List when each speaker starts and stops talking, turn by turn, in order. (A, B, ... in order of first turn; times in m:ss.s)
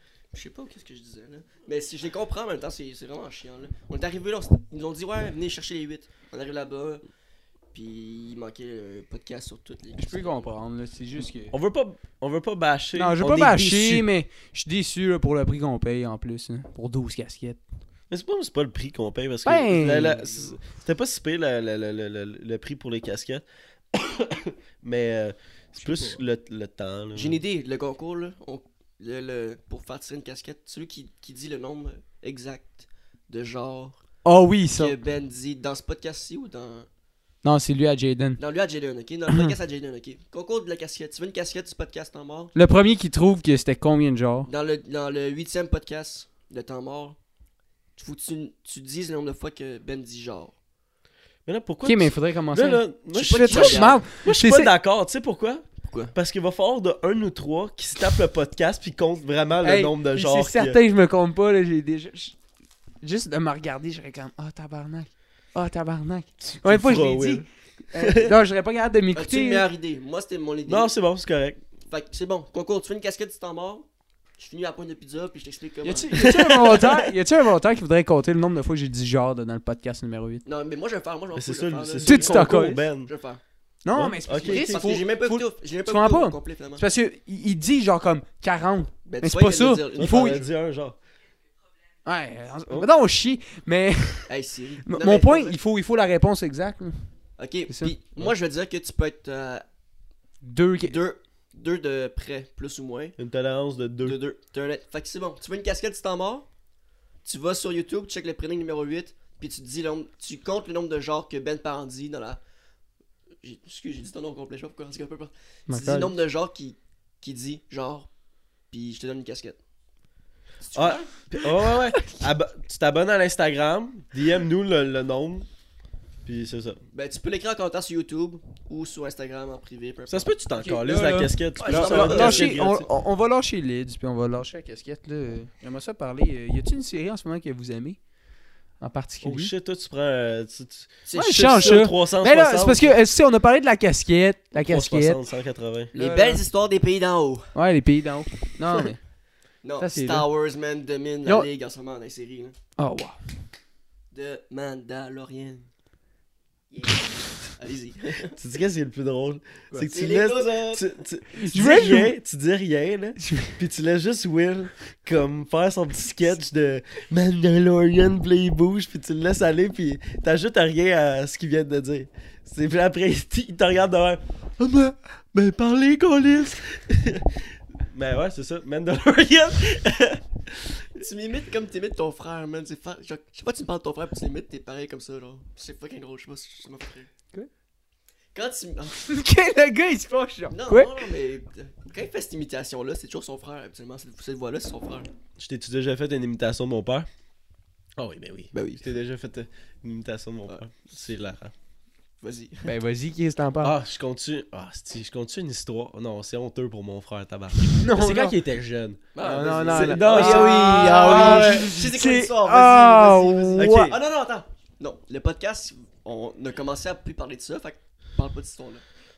0:00.3-0:07.0 A
0:07.7-0:10.5 A
0:10.0-0:11.5 B
0:11.5-0:14.1 C
0:13.0-0:17.6 B
0:18.1-0:27.4 C
0:19.5-0:20.4 B
0:25.8-0:26.2 B
0:27.2-0:34.0 A
0:34.2-0:35.0 B
0:34.7-0:36.9 A
0:37.4-0:38.4 B
0:38.4-0:42.5 A
0:42.6-0:44.5 B
0:44.5-0:47.2 A
0:48.0-0:50.6 A
0:51.5-1:00.8 C
0:51.8-0:54.7 B
0:53.2-0:54.0 A
0:55.8-0:56.1 A
0:59.6-1:02.4 B
1:03.0-1:09.7 B
1:06.6-1:07.5 C
1:08.0-1:08.3 C
1:09.2-1:10.9 A
1:10.7-1:11.6 C
1:11.9-1:16.6 A
1:15.8-1:20.4 B
1:16.2-1:17.0 C
1:20.4-1:23.4 A
1:21.4-1:23.1 C
1:22.0-1:22.8 B
1:23.8-1:30.4 B
1:24.0-1:24.8 C
1:24.4-1:26.8 A
1:29.1-1:30.4 A
1:30.0-1:31.0 C
1:32.0-1:34.3 B
1:34.3-1:35.6 A
1:34.9-1:37.1 B
1:37.4-1:39.6 A
1:37.7-1:38.0 B
1:40.4-1:41.0 B
1:40.8-1:43.2 A
1:43.2-1:44.2 C
1:44.0-1:46.5 A
1:47.2-1:52.4 A
1:53.4-1:58.1 A
1:55.7-1:56.2 B
1:58.7-1:59.6 A
2:00.6-2:01.2 A
2:00.7-2:05.5 C
2:06.2-2:06.8 C
2:06.9-2:10.3 A
2:10.1-2:12.9 C
2:10.6-2:18.0 B
2:11.6-2:12.5 A
2:18.8-2:19.5 B
2:19.2-2:22.9 C
2:21.1-2:21.9 A
2:21.1-2:25.2 B
2:24.6-2:25.9 C
2:25.9-2:26.4 B
2:25.9-2:27.5 A
2:27.5-2:29.0 B
2:29.6-2:32.6 A
2:29.8-2:30.3 B
2:32.8-2:33.2 B
2:34.1-2:35.7 A
2:36.7-2:38.4 A
2:38.4-3:00.9 C
2:39.9-2:40.9 A
2:41.4-2:42.1 B
2:43.2-2:43.6 B
3:01.0-3:07.1 A
3:08.3-3:09.0 A
3:09.0-3:11.0 B
3:10.5-3:15.1 A
3:15.4-3:17.1 C
3:18.0-3:21.5 C
3:18.5-3:18.8 A
3:20.5-3:20.8 A
3:22.2-3:22.7 A
3:22.6-3:23.8 B
3:23.6-3:29.1 C
3:27.8-3:28.4 B
3:29.2-3:38.8 A
3:29.2-3:33.9 B
3:29.7-3:31.7 C
3:33.6-3:34.0 C